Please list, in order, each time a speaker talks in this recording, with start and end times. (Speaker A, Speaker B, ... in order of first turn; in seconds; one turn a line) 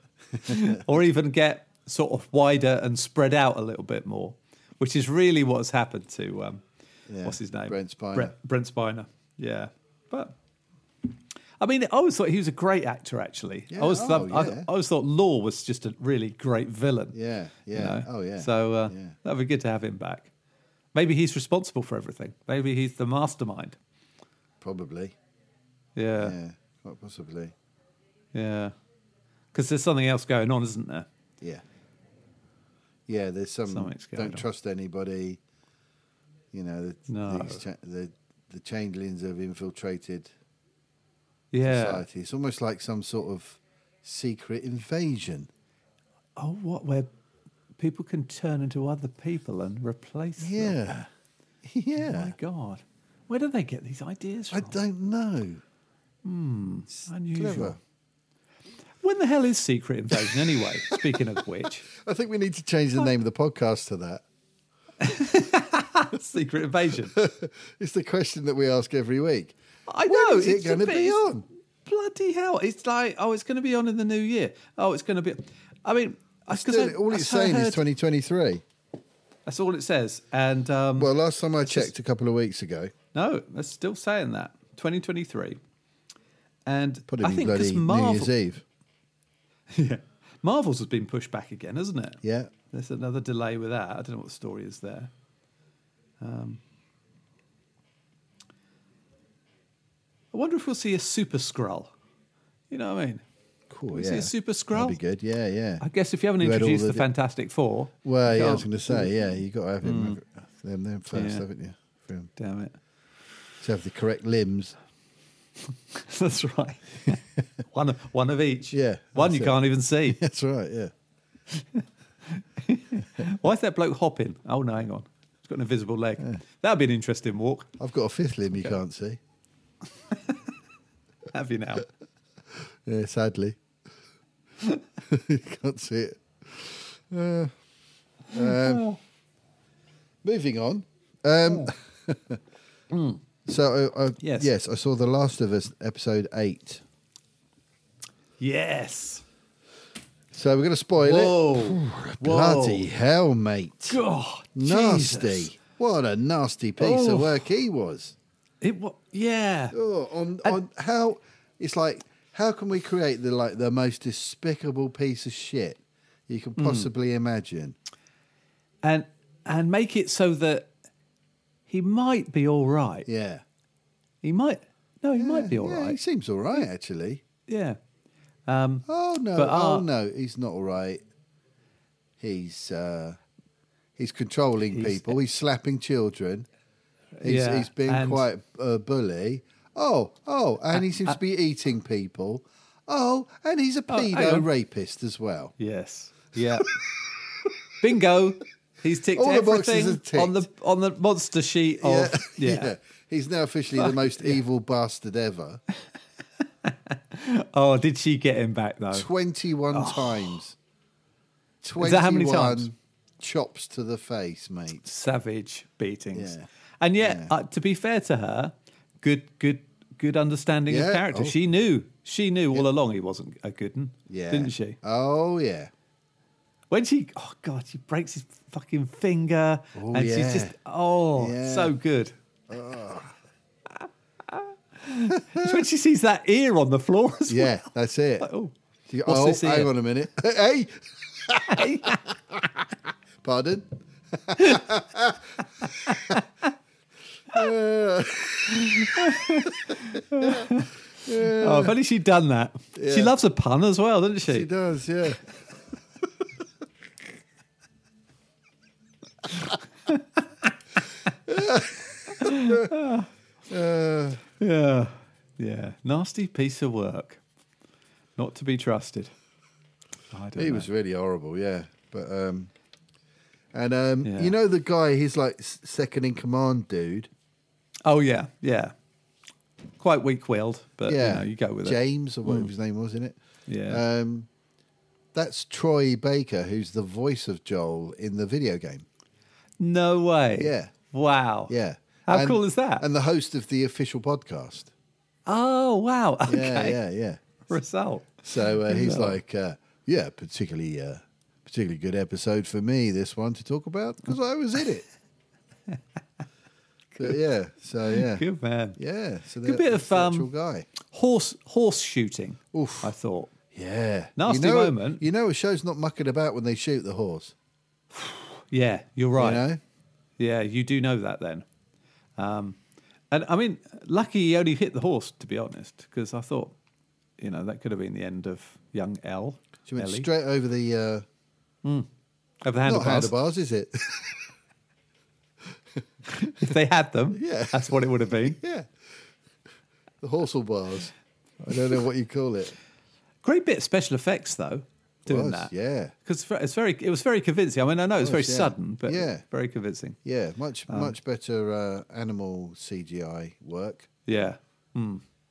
Speaker A: 0.4-6.6
Speaker B: 0.5-0.8
Speaker B: 7.1-8.3
Speaker A: 7.2-10.3
Speaker A: 11.6-17.2
Speaker B: 13.7-14.7
Speaker B: 17.1-19.1
Speaker A: 17.7-20.3
Speaker A: 20.9-23.8
Speaker B: 24.6-25.1
Speaker A: 26.0-26.4
Speaker B: 26.2-27.5
Speaker A: 28.3-28.8
Speaker A: 29.5-31.1
Speaker B: 33.1-35.4
Speaker A: 33.7-34.5
Speaker B: 36.5-40.3
Speaker A: 37.1-37.6
Speaker A: 41.5-42.0
Speaker B: 41.6-45.5
Speaker A: 46.4-47.1
Speaker A: 47.8-50.8
Speaker B: 50.4-51.1
Speaker B: 51.6-52.4
Speaker A: 52.0-54.8
Speaker B: 54.5-55.6
Speaker A: 56.2-57.8
Speaker B: 56.9-57.8
Speaker A: 59.0-61.9
Speaker B: 61.9-64.2
Speaker A: 65.0-67.2
Speaker B: 67.1-71.4
Speaker A: 69.9-77.8
Speaker B: 76.5-78.6
Speaker A: 79.5-81.9
Speaker B: 81.0-82.9
Speaker A: 83.1-85.6
Speaker A: 86.7-88.3
Speaker B: 87.1-88.6
Speaker A: 89.7-95.1
Speaker B: 92.2-92.5
Speaker A: 96.2-96.6
Speaker A: 100.3-101.9
Speaker A: 102.7-103.2
Speaker B: 103.7-105.8
Speaker A: 103.9-105.0
Speaker A: 105.8-109.2
Speaker B: 106.4-107.1
Speaker B: 108.0-112.3
Speaker A: 109.8-110.2
Speaker A: 111.1-111.5
Speaker A: 112.4-112.8
Speaker B: 113.6-114.8
Speaker A: 115.9-120.2
Speaker B: 118.7-120.9
Speaker A: 121.5-127.7
Speaker B: 127.8-129.2
Speaker A: 130.1-130.4
Speaker A: 131.3-131.9
Speaker B: 132.8-133.6
Speaker B: 135.0-137.6
Speaker B: 138.3-138.9
Speaker A: 138.3-139.0
Speaker B: 140.2-142.4
Speaker A: 142.9-143.2
Speaker B: 143.5-146.8
Speaker A: 144.2-144.5
Speaker A: 148.4-149.2
Speaker B: 150.3-154.0
Speaker A: 151.0-152.9
Speaker A: 153.9-155.5
Speaker B: 154.6-158.2
Speaker A: 156.8-157.5
Speaker A: 158.6-159.8
Speaker B: 159.7-167.8
Speaker A: 166.6-166.9
Speaker A: 168.8-170.7
Speaker A: 171.7-173.1
Speaker B: 173.1-173.4
Speaker A: 174.2-176.0
Speaker B: 175.2-177.2
Speaker A: 177.5-177.8
Speaker A: 178.5-179.9
Speaker B: 178.9-181.0
Speaker B: 182.2-183.2
Speaker B: 184.0-186.5
Speaker A: 184.7-185.2
Speaker A: 187.2-188.3
Speaker B: 187.2-195.6
Speaker A: 193.9-194.5
Speaker A: 195.6-196.7
Speaker A: 197.8-202.8
Speaker B: 199.1-200.4
Speaker B: 201.8-205.6
Speaker A: 203.8-204.4
Speaker A: 206.6-209.1
Speaker B: 208.9-210.6
Speaker A: 209.7-210.4
Speaker B: 211.6-214.9
Speaker A: 211.8-212.7
Speaker A: 214.8-224.8
Speaker B: 216.1-216.5
Speaker B: 217.0-217.3
Speaker B: 220.7-221.4
Speaker B: 224.1-225.7
Speaker A: 226.7-232.1
Speaker B: 229.8-230.5
Speaker B: 231.2-231.8
Speaker B: 232.5-233.2
Speaker A: 234.3-237.6
Speaker B: 235.2-235.6
Speaker B: 237.3-238.3
Speaker A: 238.2-238.5
Speaker B: 238.9-242.7
Speaker A: 239.1-239.7
Speaker A: 241.5-242.0
Speaker B: 243.2-246.2
Speaker A: 245.9-246.2
Speaker B: 247.3-250.5
Speaker A: 248.6-254.5
Speaker B: 251.1-251.8
Speaker B: 252.8-253.1
Speaker B: 254.3-255.2
Speaker B: 261.3-262.7
Speaker A: 262.2-263.1
Speaker B: 263.5-264.2
Speaker A: 264.4-267.2
Speaker A: 268.2-269.1
Speaker A: 270.1-270.7
Speaker B: 270.4-272.5
Speaker B: 273.5-277.1
Speaker A: 274.0-274.3
Speaker A: 277.9-278.7
Speaker A: 279.8-282.5
Speaker B: 280.9-284.3
Speaker A: 283.5-283.8
Speaker B: 285.1-288.9
Speaker A: 289.6-291.5
Speaker B: 290.4-290.7
Speaker B: 291.5-294.7
Speaker A: 292.1-292.9
Speaker A: 295.3-296.8
Speaker B: 296.3-297.4
Speaker A: 297.5-299.2
Speaker B: 298.2-304.9
Speaker B: 307.0-308.2
Speaker A: 307.9-308.8
Speaker B: 308.8-310.7
Speaker A: 309.4-310.3
Speaker A: 310.9-313.3
Speaker B: 312.5-312.9
Speaker B: 313.5-317.3
Speaker A: 314.2-315.1
Speaker A: 317.9-319.5
Speaker B: 319.2-319.6
Speaker A: 320.2-321.5
Speaker A: 322.2-322.6
Speaker A: 323.1-326.6
Speaker A: 327.2-330.1
Speaker B: 329.7-331.1
Speaker A: 332.4-333.1
Speaker B: 332.6-334.2
Speaker A: 336.1-338.4
Speaker B: 337.1-338.7
Speaker B: 340.0-342.6
Speaker A: 343.2-345.5
Speaker B: 345.1-345.9
Speaker A: 346.0-350.0
Speaker B: 348.0-349.2
Speaker B: 350.1-353.9
Speaker A: 350.7-350.9
Speaker A: 354.1-355.0